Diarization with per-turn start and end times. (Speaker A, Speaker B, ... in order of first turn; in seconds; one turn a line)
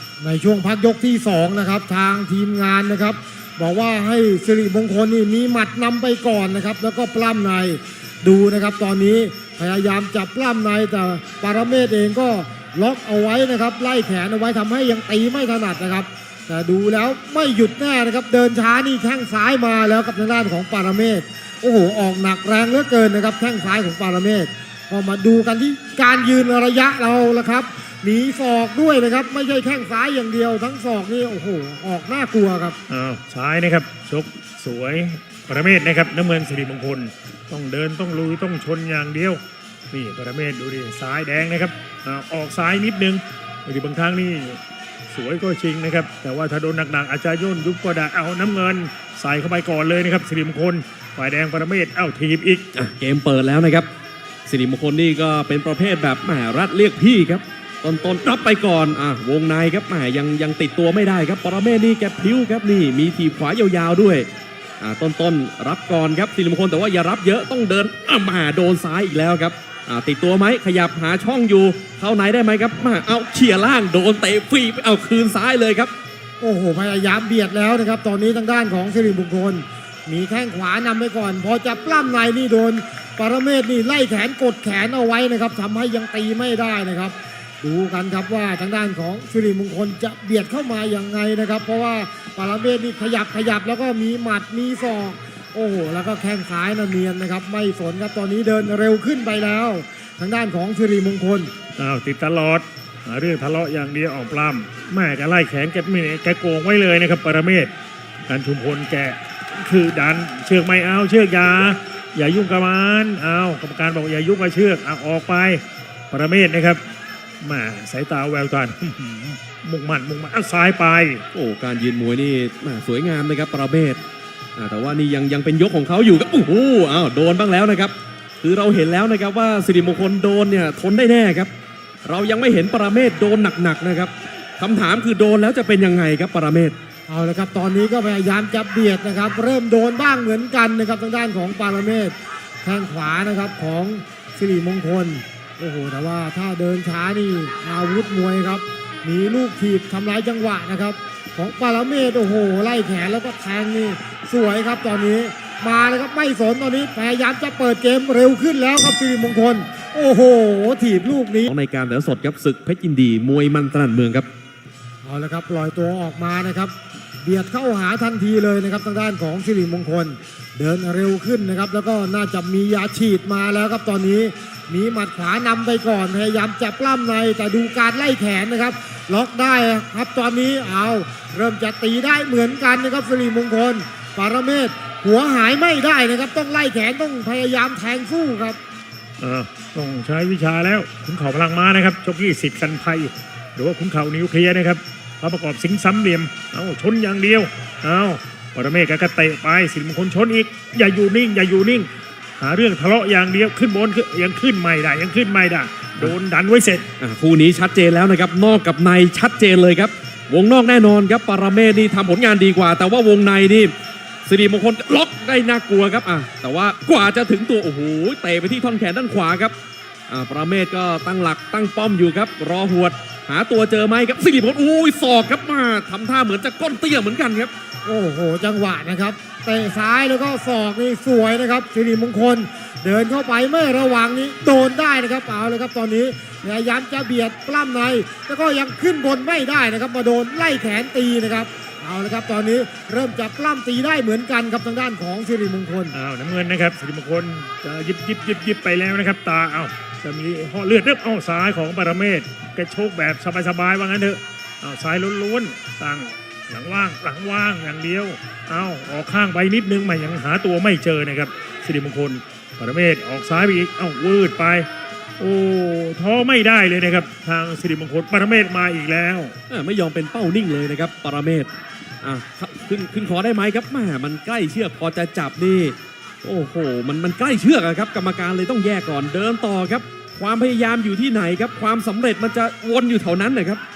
Speaker A: 0.2-32.8
Speaker B: 32.9-39.4
Speaker B: 39.9-52.7
Speaker C: 52.7-53.9
Speaker C: 54.5-64.3
Speaker C: 64.8-75.9
Speaker A: 76.4-101.5
Speaker B: 101.8-107.7
Speaker B: 108.3-116.8
Speaker B: 117.4-121.2
Speaker C: 121.3-124.0
Speaker C: 124.5-131.5
Speaker C: 132.0-136.8
Speaker A: 137.1-161.5
Speaker C: 161.5-164.3
Speaker A: 165.0-188.6
Speaker B: 189.2-201.9
Speaker B: 202.4-206.8
Speaker C: 207.0-213.7
Speaker C: 214.2-219.5
Speaker C: 220.1-227.5
Speaker A: 227.8-245.9
Speaker B: 245.9-264.7
Speaker B: 265.2-269.3
Speaker C: 269.5-271.5
Speaker C: 272.0-283.6